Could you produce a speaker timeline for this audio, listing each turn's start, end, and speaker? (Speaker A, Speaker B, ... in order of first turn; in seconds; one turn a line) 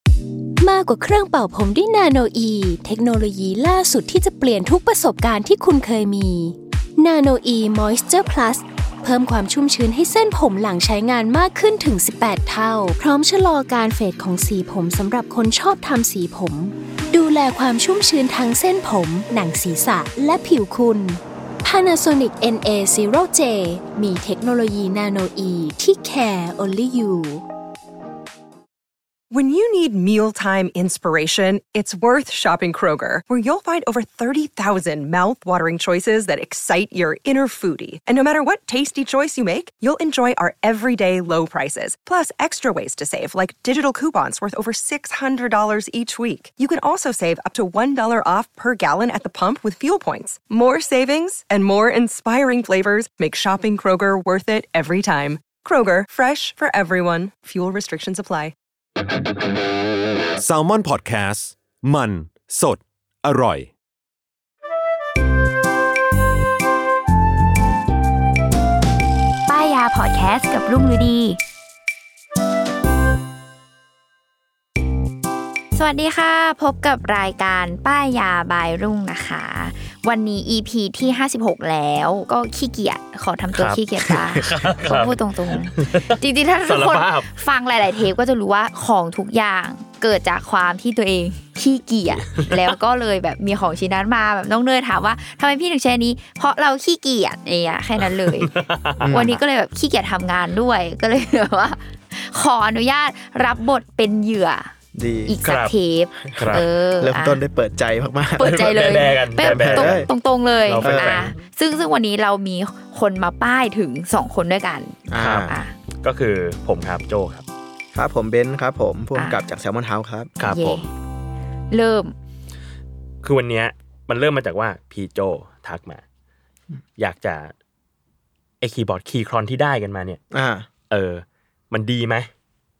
Speaker A: 0.6-27.4
Speaker B: 29.3-58.5
Speaker C: 60.4-63.7
Speaker D: 69.5-71.4
Speaker D: 75.7-98.5
Speaker E: 83.5-87.3
Speaker E: 92.3-92.6
Speaker E: 98.0-99.3
Speaker F: 99.0-99.4
Speaker D: 99.1-104.7
Speaker F: 104.9-105.4
Speaker D: 105.3-107.4
Speaker E: 105.4-105.7
Speaker F: 106.2-110.1
Speaker E: 106.3-106.6
Speaker D: 108.4-115.7
Speaker E: 108.4-110.1
Speaker E: 110.7-111.3
Speaker F: 110.8-111.3
Speaker F: 115.1-115.5
Speaker E: 115.2-117.4
Speaker F: 117.9-120.3
Speaker D: 119.2-119.4
Speaker E: 120.4-120.8
Speaker D: 120.4-120.9
Speaker D: 121.7-122.1
Speaker E: 123.2-126.0
Speaker E: 127.0-127.5
Speaker E: 128.6-130.2
Speaker F: 130.3-130.7
Speaker E: 130.9-132.3